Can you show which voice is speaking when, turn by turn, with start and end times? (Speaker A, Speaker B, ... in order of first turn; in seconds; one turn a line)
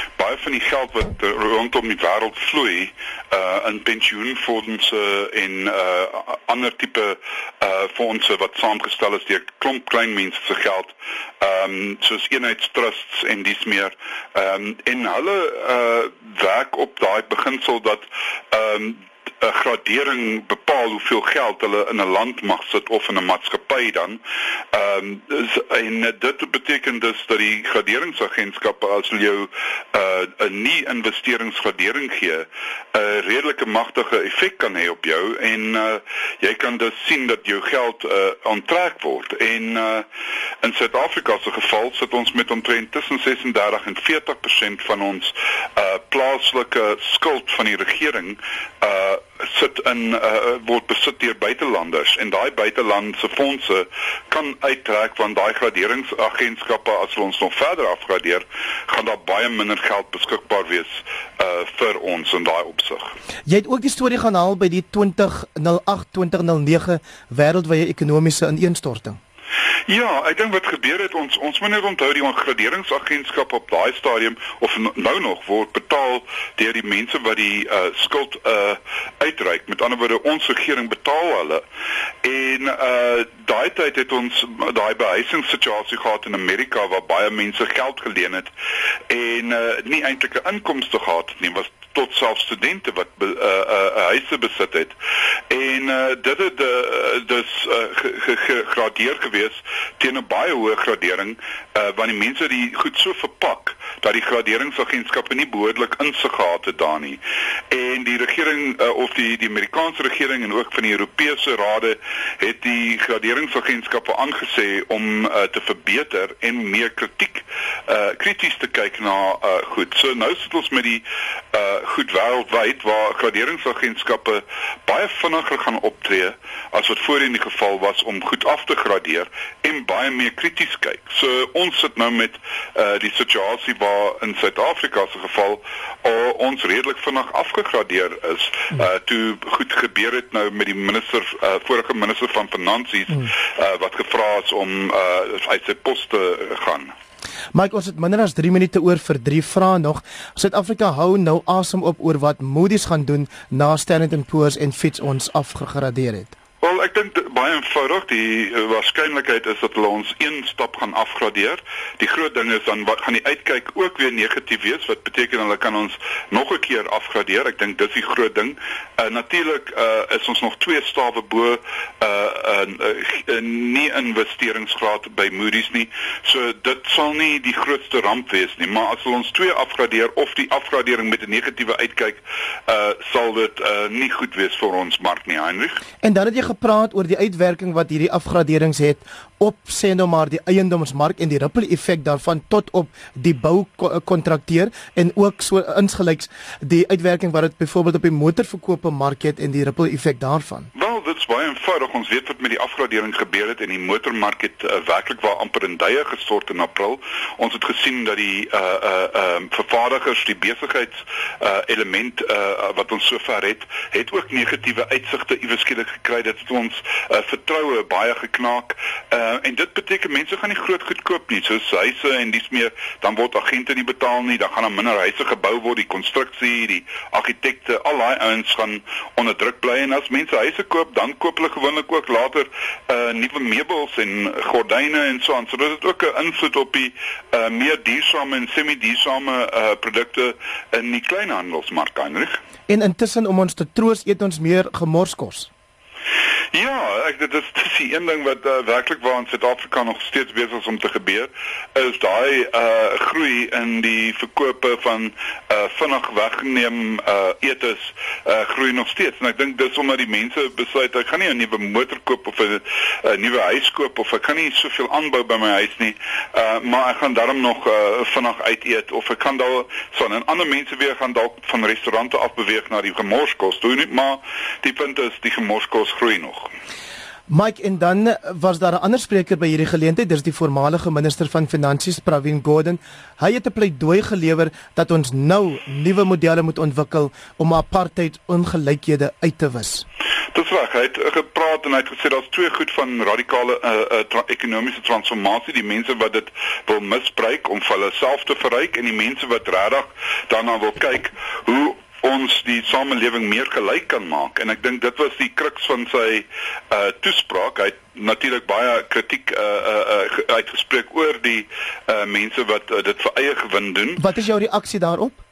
Speaker A: 0.2-24.2
Speaker A: 24.7-40.1
Speaker A: 40.6-63.1
Speaker B: 63.5-69.2
Speaker A: 69.9-81.6
Speaker A: 82.2-88.5
Speaker A: 89.1-94.9
Speaker A: 95.5-146.9
Speaker B: 147.5-156.3
Speaker A: 156.6-185.8
Speaker B: 186.0-200.7
Speaker A: 200.7-242.4
Speaker B: 242.7-245.5
Speaker A: 246.5-276.5
Speaker B: 277.3-289.8
Speaker A: 290.3-314.0
Speaker B: 314.0-315.2